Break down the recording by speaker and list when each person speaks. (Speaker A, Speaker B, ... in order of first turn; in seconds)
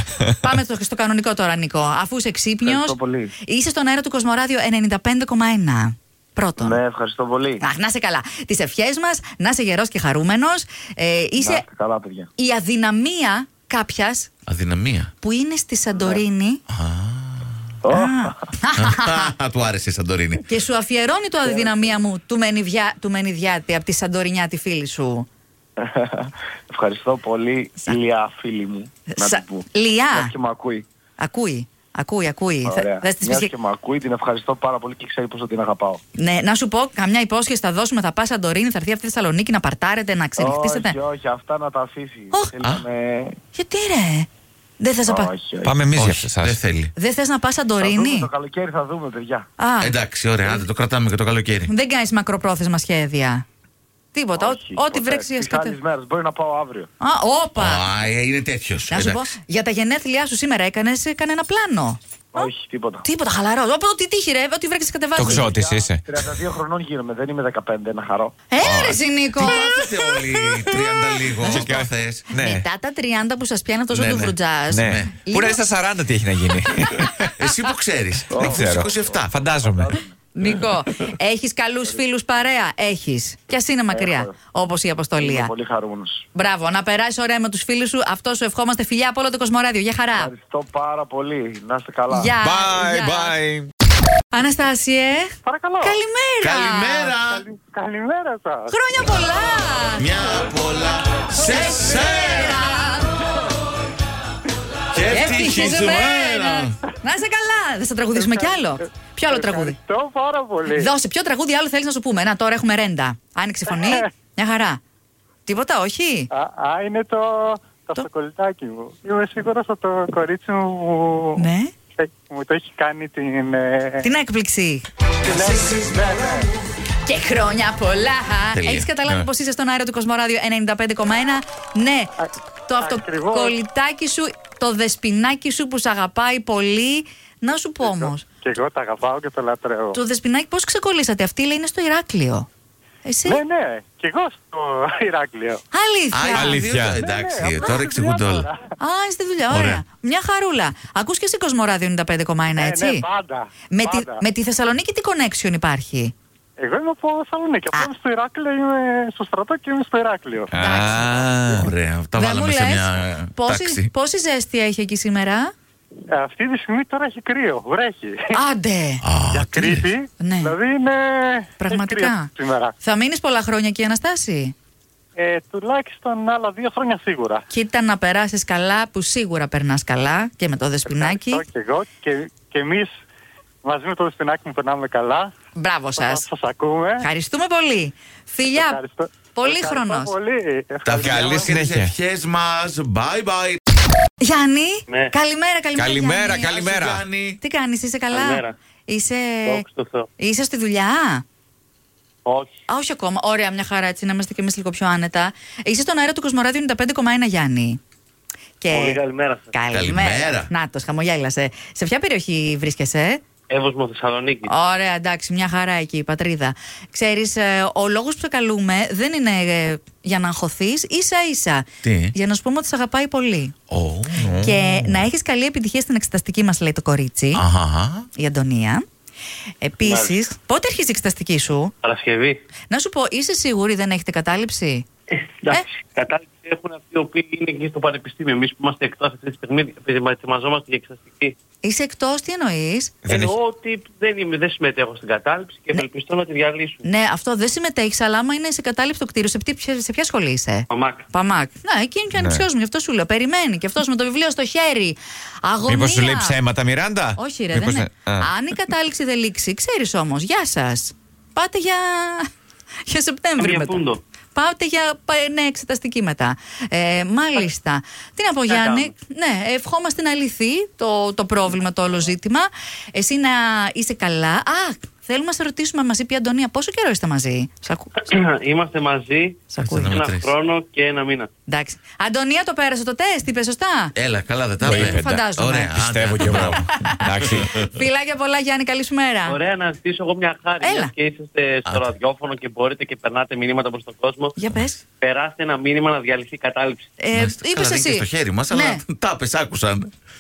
Speaker A: 0.4-6.8, 7.6-11.6, 12.4-14.3, 15.2-16.6, 17.9-19.3, 20.4-25.3, 29.1-30.3, 31.2-33.5, 36.2-41.0, 43.5-44.3, 44.8-45.3, 47.0-48.3, 49.6-49.9, 51.7-53.4, 54.1-55.8, 57.0-57.8, 58.9-62.5, 63.0-65.4, 68.5-71.7, 72.3-75.6, 80.3-85.5, 86.3-90.3, 92.1-93.3, 94.3-97.1, 98.7-100.1, 101.3-103.1, 105.1-109.8, 110.7-114.8, 115.5-116.3, 121.4-121.7, 124.0-124.8, 127.0-138.2, 139.9-142.4, 143.0-143.4, 145.7-146.6, 148.8-153.1, 153.7-156.1, 160.6-161.2, 162.2-165.5, 168.3-169.0, 170.2-170.5, 171.6-172.3, 172.8-174.5, 177.5-181.4, 185.6-186.2, 187.0-188.8, 189.3-190.1, 194.2-196.5, 197.4-199.6, 200.2-201.2, 202.7-207.8, 208.6-209.0, 209.5-213.2, 214.5-223.5, 224.4-227.4, 228.2-228.8, 229.6-231.7, 232.7-234.8, 241.6-242.9, 246.8-256.4, 257.2-262.3, 262.9-263.8, 264.3-277.9, 279.5-280.0, 281.5-283.9, 284.6-285.8, 286.3-286.6, 287.5-289.4, 290.6-290.9, 294.4-294.8, 297.0-298.8
Speaker B: 2.6-3.3, 6.6-7.6, 11.4-12.3, 15.9-16.2, 17.8-18.4, 21.4-21.9, 25.8-30.9, 32.6-36.0, 40.4-43.4, 45.0-45.8, 47.8-49.5, 54.4-56.9, 62.3-63.1, 65.2-68.3, 78.3-78.7, 79.3-80.1, 83.9-84.3, 85.2-86.2, 90.2-92.3
Speaker C: 14.5-15.1, 16.7-17.5, 18.8-20.4, 45.9-46.9, 49.8-51.7, 57.5-59.3, 69.4-72.2, 73.9-75.2, 77.4-79.3, 96.4-97.5, 100.0-102.6, 104.9-106.8, 125.2-126.2, 128.5-129.3, 146.1-148.5, 149.5-149.8, 161.5-163.9, 169.0-169.9, 190.8-193.6, 196.4-197.4, 209.7-210.5, 221.8-222.1, 223.7-225.0, 227.3-228.1, 279.6-280.3, 283.9-287.7, 297.1-299.9
Speaker D: 45.6-46.6, 65.2-66.0, 68.6-69.0, 71.4-72.7, 74.7-77.3, 78.3-79.9, 92.4-93.7, 146.3-147.0, 160.5-161.7, 191.0-191.9, 195.8-197.0, 243.0-243.3, 252.1-252.5, 255.7-258.3, 284.6-287.5
Speaker E: 95.4-96.0, 97.2-98.7, 108.2-108.6, 109.3-110.9, 113.7-114.0, 116.3-121.5, 122.0-124.1, 125.2-126.5, 132.8-133.6, 137.8-140.0, 143.2-145.6, 147.0-148.7, 152.6-154.2, 156.6-160.5, 166.1-168.3, 169.2-172.7, 175.2-177.4, 180.8-182.9, 183.6-185.3, 186.0-187.1, 188.5-191.6
Speaker F: 198.1-198.5, 199.4-200.1, 208.7-209.4, 213.5-214.5, 229.8-230.2, 231.8-232.4, 235.1-241.3, 243.0-246.8, 250.7-251.0, 263.4-264.0, 268.5-268.9, 278.0-281.3, 289.3-294.3, 295.0-296.9